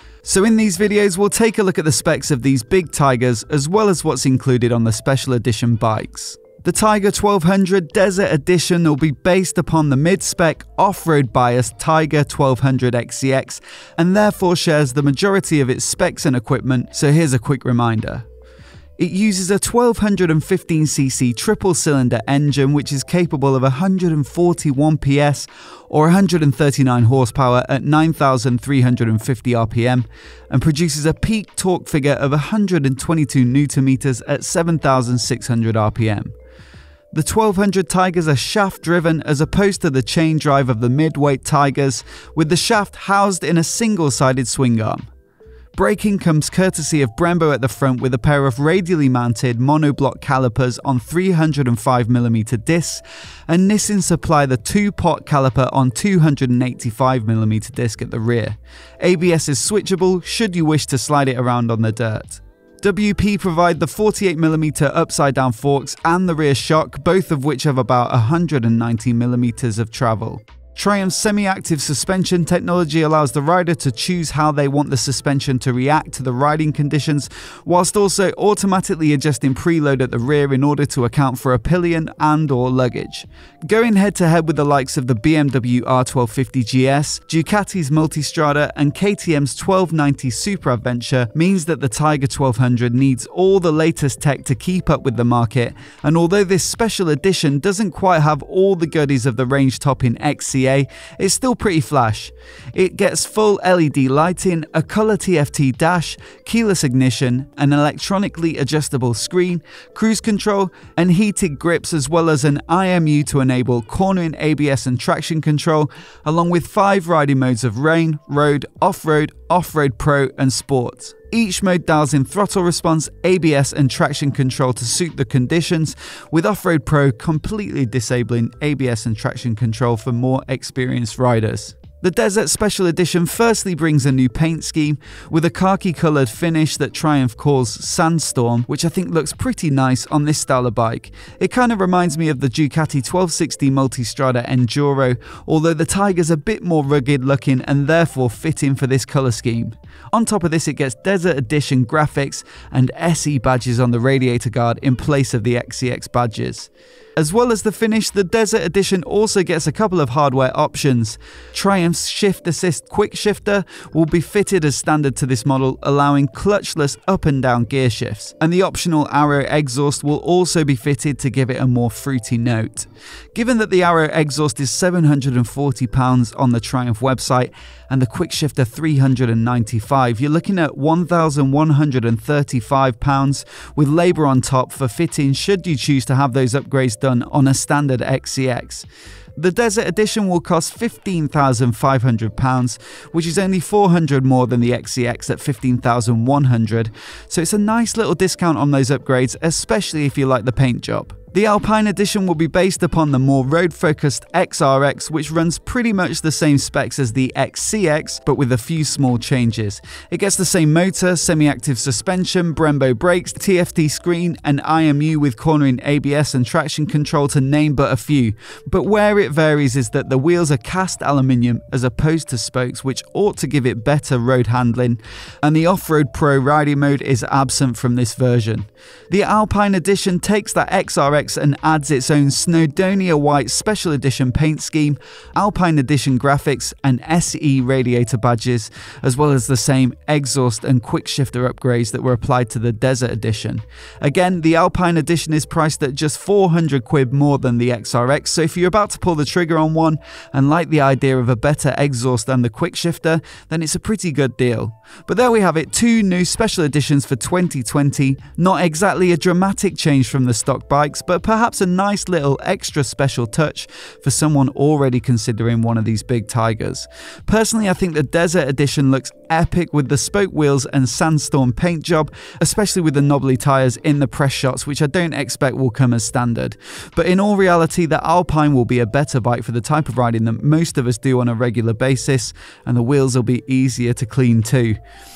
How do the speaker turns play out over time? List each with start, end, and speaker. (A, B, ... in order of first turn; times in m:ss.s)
0:00.2-0:18.3 A
0:19.0-0:36.3 A
0:37.1-0:45.1 A
0:45.8-4:44.8 A